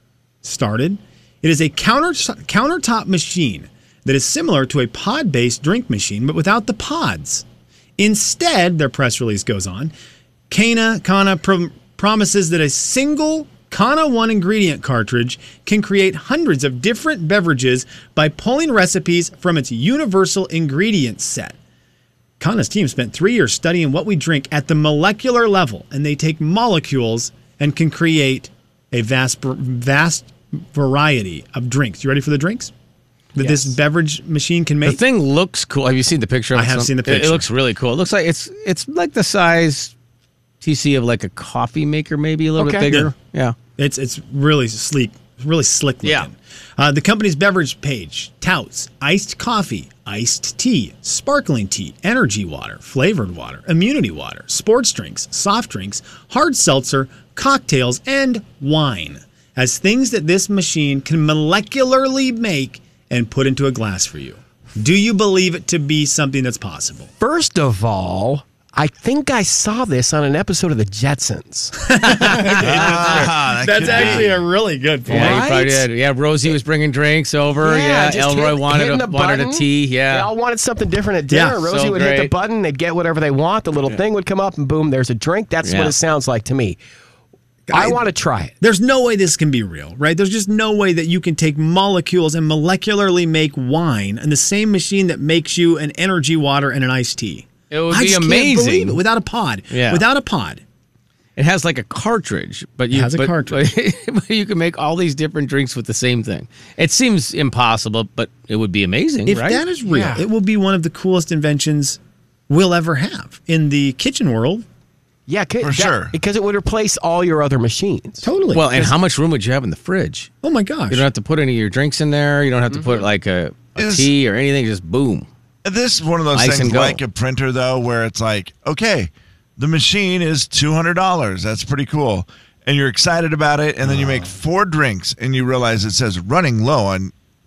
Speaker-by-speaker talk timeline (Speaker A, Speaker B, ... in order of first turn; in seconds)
Speaker A: 0.4-7.4, 8.0-9.9, 10.5-21.6, 22.4-32.7, 33.4-35.0, 36.5-37.5, 43.8-67.1, 71.8-75.8, 81.3-81.7, 87.7-88.0, 88.6-100.6, 102.9-103.7, 109.2-114.6, 118.2-118.9, 120.4-121.0, 133.8-134.3
Speaker B: 33.4-33.7, 42.6-42.9, 67.2-71.8, 75.1-75.7, 77.6-86.8, 87.7-88.5, 109.9-110.2, 115.3-118.3
Speaker C: 34.8-39.9, 40.6-43.5, 72.0-73.3, 73.8-74.2, 75.1-80.3, 81.7-82.3, 85.6-85.9, 97.7-99.0, 99.7-100.0, 101.4-109.6, 118.5-120.3, 120.9-125.3, 126.3-127.0
Speaker D: 72.5-74.4, 115.6-116.2, 123.8-124.1, 125.6-137.1